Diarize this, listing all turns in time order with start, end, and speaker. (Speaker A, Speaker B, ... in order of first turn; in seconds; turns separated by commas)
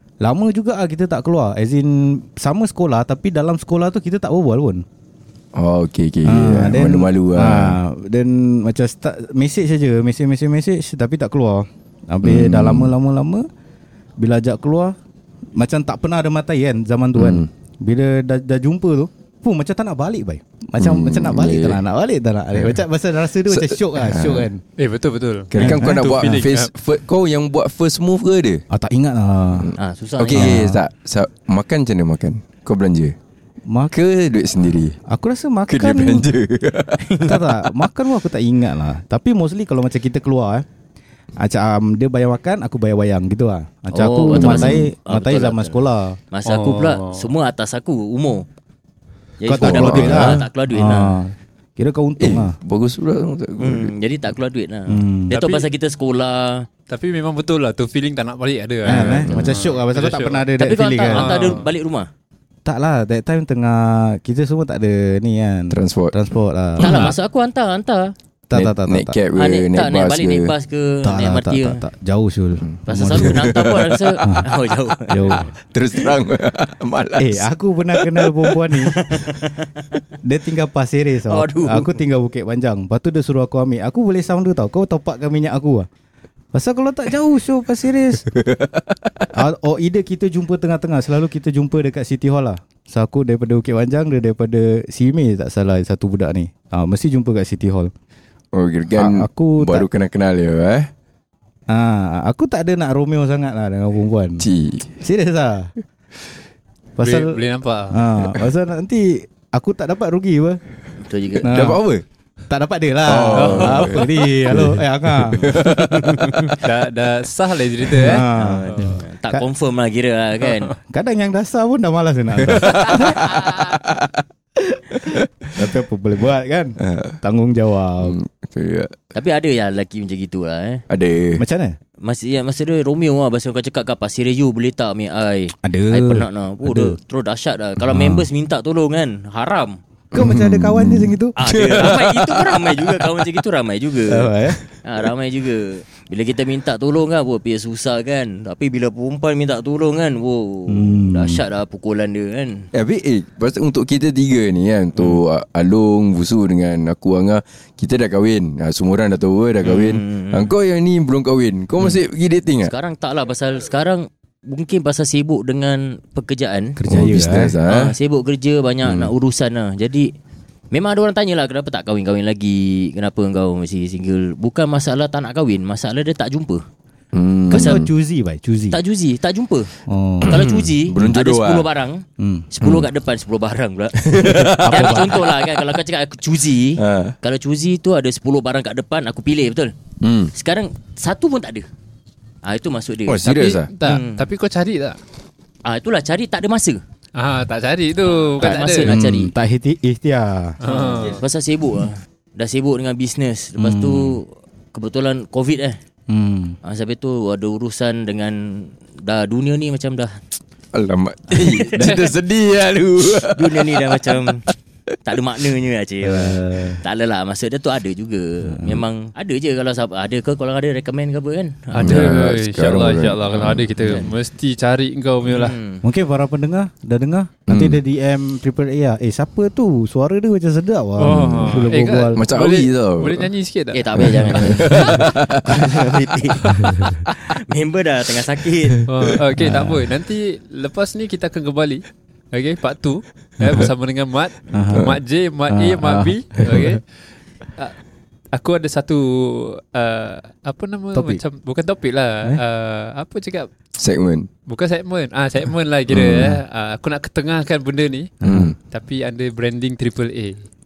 Speaker A: 0.2-4.8, Speaker B: 5.5-7.8, Speaker A: 6.2-13.4, Speaker B: 12.2-12.9, Speaker A: 14.2-14.9, Speaker A: 15.6-24.6, Speaker B: 17.2-17.5, Speaker B: 20.8-21.8, Speaker B: 22.5-22.8, Speaker B: 23.4-24.5, Speaker C: 24.8-26.7, Speaker B: 25.5-28.6, Speaker A: 25.5-26.1, Speaker A: 28.7-29.7, Speaker B: 29.6-33.1, Speaker D: 29.8-30.5, Speaker A: 30.3-30.8, Speaker A: 33.7-33.9, Speaker B: 33.9-35.0, Speaker A: 35.1-36.3, Speaker B: 35.7-37.8, Speaker A: 37.2-40.6, Speaker A: 41.4-46.2, Speaker D: 43.9-48.4, Speaker B: 44.3-44.9, Speaker C: 46.5-47.3, Speaker D: 49.4-51.1, Speaker A: 49.5-52.6, Speaker B: 49.6-50.4, Speaker B: 52.2-53.9, Speaker D: 53.6-56.7, Speaker A: 54.9-55.4, Speaker C: 55.3-55.7, Speaker C: 56.9-60.5, Speaker A: 58.8-61.5, Speaker B: 59.1-59.6, Speaker D: 60.6-62.1, Speaker C: 61.1-61.7, Speaker A: 62.6-67.1, Speaker B: 65.7-66.1, Speaker D: 66.8-68.1, Speaker C: 66.8-67.1, Speaker A: 68.5-69.2, Speaker B: 68.5-70.5, Speaker D: 69.3-71.8, Speaker A: 71.0-73.5, Speaker B: 72.6-74.2, Speaker D: 72.9-75.4, Speaker A: 74.2-74.5, Speaker A: 75.1-75.5, Speaker B: 75.4-78.5, Speaker A: 77.2-79.0, Speaker D: 78.8-80.0, Speaker A: 80.2-85.9, Speaker D: 81.3-82.0, Speaker A: 86.5-88.2, Speaker B: 88.4-89.0, Speaker A: 89.3-97.9, Speaker B: 98.5-100.9, Speaker A: 98.9-99.9, Speaker A: 101.7-104.5, Speaker B: 104.4-105.0, Speaker A: 105.0-105.7, Speaker A: 107.0-107.4, Speaker C: 107.0-108.1, Speaker A: 107.9-110.6, Speaker D: 111.0-111.5, Speaker A: 111.3-111.8, Speaker B: 111.5-112.0, Speaker A: 112.5-115.7, Speaker B: 113.0-116.6, Speaker C: 113.3-114.4, Speaker D: 116.0-116.5, Speaker C: 116.5-119.0, Speaker A: 118.0-119.4, Speaker D: 118.3-120.7, Speaker A: 120.9-123.6, Speaker B: 122.5-124.2, Speaker A: 124.6-128.2, Speaker B: 126.8-127.2, Speaker B: 128.0-128.9, Speaker D: 129.1-130.8, Speaker B: 130.9-131.4, Speaker A: 131.3-131.8, Speaker D: 132.0-139.8, Speaker A: 135.6-136.9, Speaker A: 137.8-138.3, Speaker A: 140.1-141.4, Speaker B: 140.1-143.4, Speaker D: 141.4-144.3, Speaker A: 144.1-144.6, Speaker D: 144.8-152.7, Speaker A: 150.7-151.4, Speaker B: 152.7-162.7, Speaker D: 159.6-160.5, Speaker D: 162.6-166.8, Speaker A: 166.8-167.6, Speaker B: 166.8-167.9, Speaker D: 167.4-170.1, Speaker B: 168.8-169.1, Speaker D: 170.7-176.6, Speaker B: 177.1-177.8, Speaker A: 177.5-178.8, Speaker D: 177.5-177.8, Speaker D: 178.7-179.7, Speaker A: 179.9-180.5, Speaker D: 180.2-189.7, Speaker B: 180.2-181.7, Speaker A: 182.2-182.5, Speaker B: 182.6-182.9, Speaker B: 184.0-185.0, Speaker A: 184.6-185.3, Speaker B: 186.8-187.1, Speaker B: 190.0-190.3, Speaker D: 190.3-191.6, Speaker D: 192.4-193.3, Speaker B: 193.1-193.7, Speaker C: 193.2-195.0, Speaker D: 193.8-194.2, Speaker D: 195.6-196.8, Speaker C: 197.1-198.9, Speaker D: 198.1-199.3, Speaker A: 198.4-200.6, Speaker C: 200.6-201.2, Speaker D: 200.6-205.8, Speaker A: 203.6-204.2, Speaker A: 206.1-206.6, Speaker D: 206.6-210.1, Speaker B: 210.7-214.3, Speaker D: 211.3-212.1, Speaker D: 213.1-214.4, Speaker D: 215.1-222.2, Speaker A: 216.0-216.8, Speaker A: 218.4-218.8, Speaker C: 221.7-225.6, Speaker B: 221.8-224.0, Speaker D: 223.8-224.1, Speaker D: 225.3-225.8, Speaker A: 225.8-232.3, Speaker B: 227.5-227.8, Speaker C: 231.0-235.1, Speaker B: 231.1-233.3, Speaker D: 233.7-238.8, Speaker B: 234.0-235.9, Speaker C: 236.4-236.8, Speaker A: 236.6-236.9, Speaker C: 238.9-246.8, Speaker A: 239.4-239.9, Speaker A: 244.5-244.9, Speaker A: 245.5-246.8, Speaker C: 248.3-253.5, Speaker A: 250.9-251.2, Speaker B: 253.8-254.3, Speaker C: 254.5-258.1, Speaker B: 255.9-256.3, Speaker A: 256.0-256.4, Speaker A: 258.2-258.5, Speaker B: 258.2-258.5, Speaker C: 258.7-260.4